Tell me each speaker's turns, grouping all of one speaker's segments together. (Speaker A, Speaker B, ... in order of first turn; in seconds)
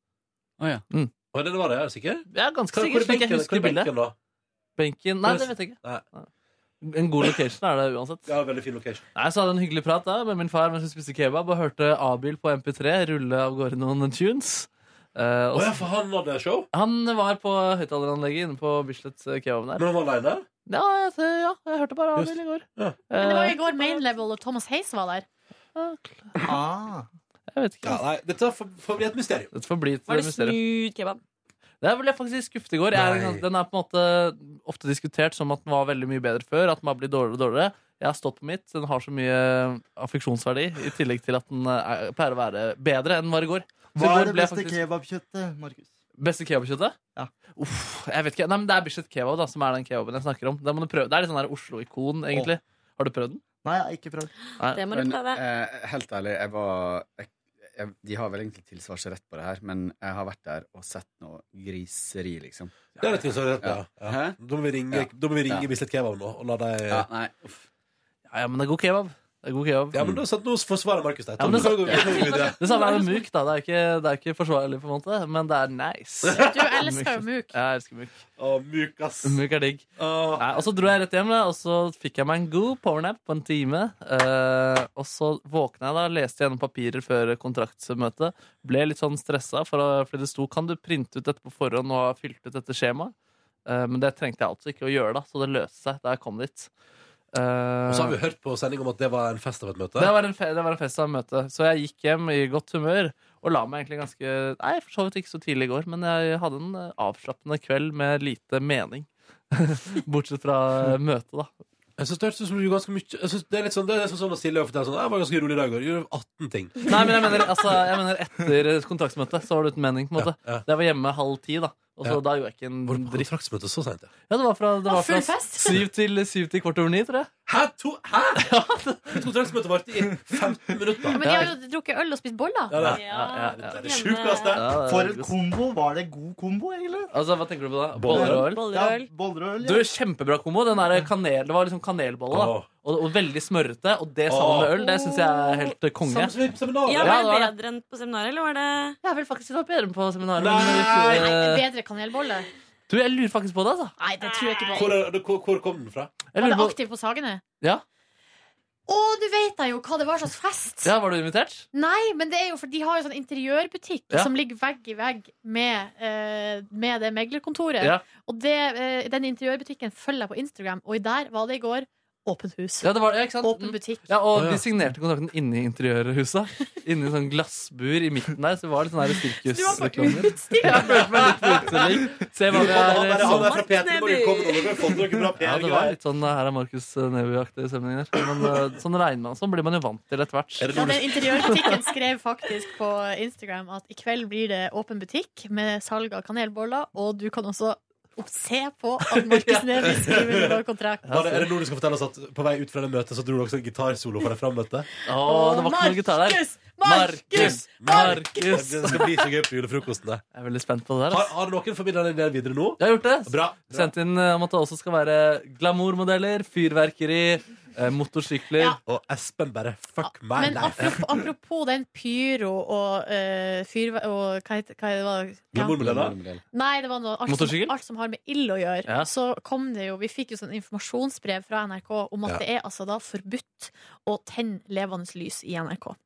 Speaker A: 0.6-0.8, 54.9-62.9, 63.6-64.4, 64.9-65.7, 66.9-67.7, 70.0-70.2, 71.4-72.0, 225.7-226.4
Speaker B: 1.3-4.2, 5.2-6.0, 8.3-9.1, 15.5-16.7, 19.8-20.4, 22.2-23.0, 27.8-29.5, 32.9-33.5, 63.0-67.1, 69.9-72.7, 76.2-76.7, 78.4-79.4, 80.0-80.5, 97.9-100.1, 112.0-117.7, 120.2-120.6, 122.9-124.1, 127.5-128.5, 129.1-131.4, 132.7-133.0, 133.6-134.6, 137.9-138.4, 142.3-142.7, 144.3-144.7, 146.1-147.2, 150.4-151.3, 154.6-156.2, 174.3-174.7, 182.5-186.0, 190.6-191.2, 199.9-200.6, 201.1-204.9, 207.3-210.2, 211.1-213.9, 218.9-221.0, 225.5-226.2
Speaker C: 2.3-3.9, 4.8-6.3, 6.8-8.3, 9.2-15.8, 16.7-19.8, 20.7-23.6, 25.8-26.3, 27.5-28.0, 29.5-30.6, 31.8-44.8, 46.2-47.0, 47.6-53.4, 54.6-54.9, 68.3-70.0, 71.4-78.2, 79.2-79.9, 80.4-93.1, 93.7-96.7, 97.3-98.2, 100.0-111.5, 116.9-123.3, 124.3-127.3, 128.4-129.2, 131.2-131.5, 132.8-133.8, 134.5-135.3, 137.1-138.8, 139.6-146.4, 146.9-147.5, 149.0-151.7, 152.9-153.9, 156.3-156.8, 160.8-161.7, 172.8-183.6, 185.4-191.8, 199.1-199.9, 201.1-201.5, 205.1-209.1, 210.3-211.3, 212.8-218.8, 227.3-227.7
Speaker D: 23.2-25.3, 72.7-73.0, 76.3-77.5, 124.9-125.7, 131.1-132.8, 151.1-152.5, 154.0-155.0, 156.4-157.4, 158.9-160.9, 161.7-172.9, 173.4-174.1, 179.5-181.8, 190.8-201.1, 205.2-209.3, 220.1-225.8, 226.5-236.0
Speaker E: 26.4-27.1, 44.0-45.9, 53.6-54.3, 134.8-137.1, 138.1-139.9
Speaker F: 30.1-31.2, 54.7-55.4, 132.8-134.6, 138.2-139.1, 144.7-145.8, 146.9-149.0, 154.2-154.7, 183.3-185.1